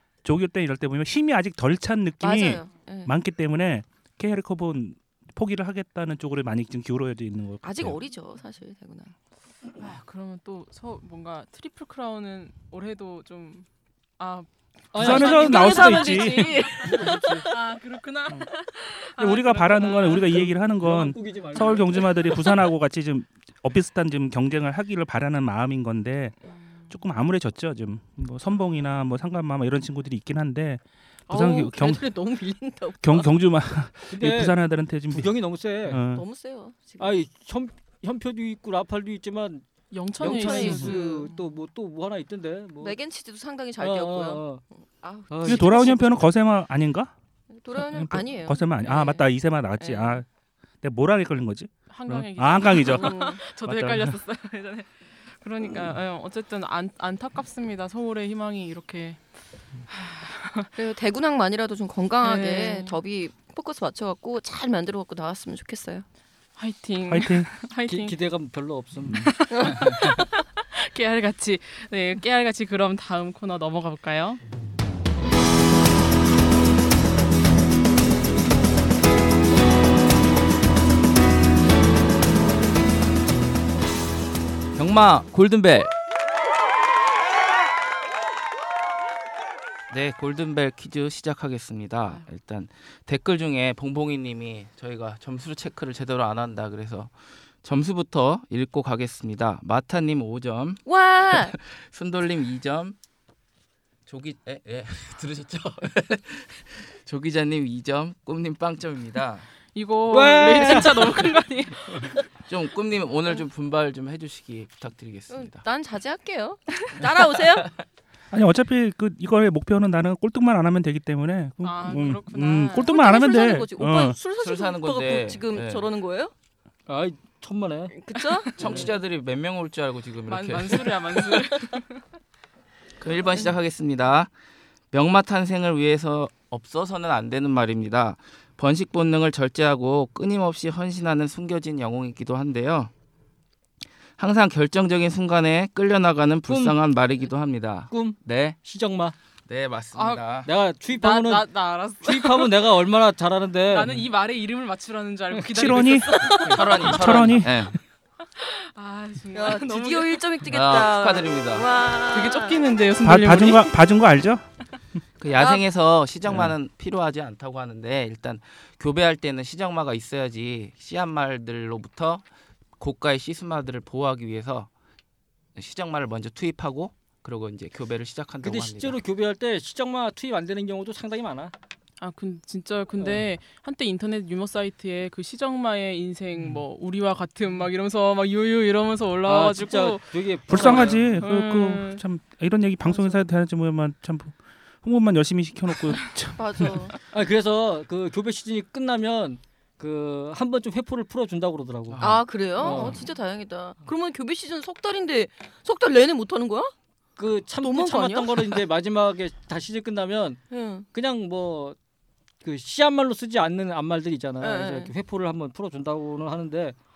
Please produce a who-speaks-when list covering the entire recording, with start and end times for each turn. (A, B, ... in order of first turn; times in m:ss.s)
0:00.2-0:08.0 A
0:02.2-0:03.1 B
0:07.6-0:09.1 B
0:09.8-0:13.7 C
0:14.2-0:16.9 C
0:14.9-0:15.7 D
0:15.0-0:16.6 A
0:15.0-0:17.5 B
0:16.8-0:17.5 D
0:17.4-0:20.4 C
0:19.2-0:26.4 A
0:20.2-0:22.1 D
0:26.9-0:32.1 A
0:31.3-0:33.3 B
0:33.0-0:35.4 A
0:34.1-0:34.6 D
0:35.1-0:36.0 D
0:35.9-0:36.2 A
0:36.1-0:37.2 B
0:37.0-0:39.6 D
0:39.9-0:41.0 C
0:40.2-0:43.0 D
0:40.2-0:41.4 B
0:42.8-0:46.3 B
0:43.8-0:44.6 D
0:45.3-0:46.2 D
0:45.4-0:47.1 A
0:47.5-0:49.3 B
0:47.8-0:50.3 A
0:49.8-0:50.1 B
0:50.8-0:54.2 A
0:51.9-0:59.2 C
0:52.8-0:53.4 B
0:59.9-1:00.8 C
1:00.8-1:06.1 B
1:02.2-1:03.0 C
1:06.6-1:08.2 C
1:07.1-1:07.5 A
1:07.9-1:09.3 D
1:09.2-1:14.4 C
1:09.5-1:09.8 B
1:24.8-1:25.9 E
1:29.9-1:37.1 E
1:37.6-1:43.0 E
1:40.8-1:41.6 B
1:44.1-1:49.5 E
1:49.7-1:52.2 C
1:50.1-1:51.2 D
1:52.5-1:55.6 E
1:55.3-1:57.7 B
1:57.1-1:57.7 E
1:58.3-2:04.2 A
2:01.6-2:03.0 C
2:02.8-2:06.3 B
2:04.4-2:05.9 E
2:06.9-2:08.0 D
2:07.9-2:08.9 B
2:08.6-2:11.1 E
2:08.6-2:08.9 D
2:10.3-2:12.0 C
2:13.0-2:14.3 E
2:14.9-2:22.9 E
2:24.2-2:28.6 E
2:26.5-2:26.8 D
2:27.9-2:29.2 D
2:29.5-2:30.5 E
2:30.0-2:30.2 C
2:30.4-2:31.5 D
2:30.9-2:32.8 C
2:32.0-2:34.1 D
2:33.7-2:36.9 C
2:35.5-2:37.6 A
2:36.2-2:36.6 B
2:36.5-2:37.8 E
2:38.4-2:40.3 C
2:39.3-2:42.6 B
2:40.5-2:41.7 E
2:42.1-2:43.8 C
2:43.0-2:44.4 A
2:45.2-2:52.2 E
2:45.4-2:45.6 B
2:52.8-2:54.7 E
2:55.6-2:59.0 E
2:58.4-3:01.5 D
3:02.0-3:12.0 C
3:09.2-3:11.1 D
3:10.5-3:16.9 A
3:12.8-3:13.2 C
3:16.4-3:16.9 B
3:17.1-3:22.0 D
3:21.9-3:23.0 E
3:22.0-3:26.7 B
3:22.6-3:23.0 D
3:27.2-3:30.4 D
3:27.6-3:28.6 B
3:30.5-3:30.9 B
3:30.9-3:31.8 D
3:32.4-3:36.8 D
3:34.4-3:34.9 B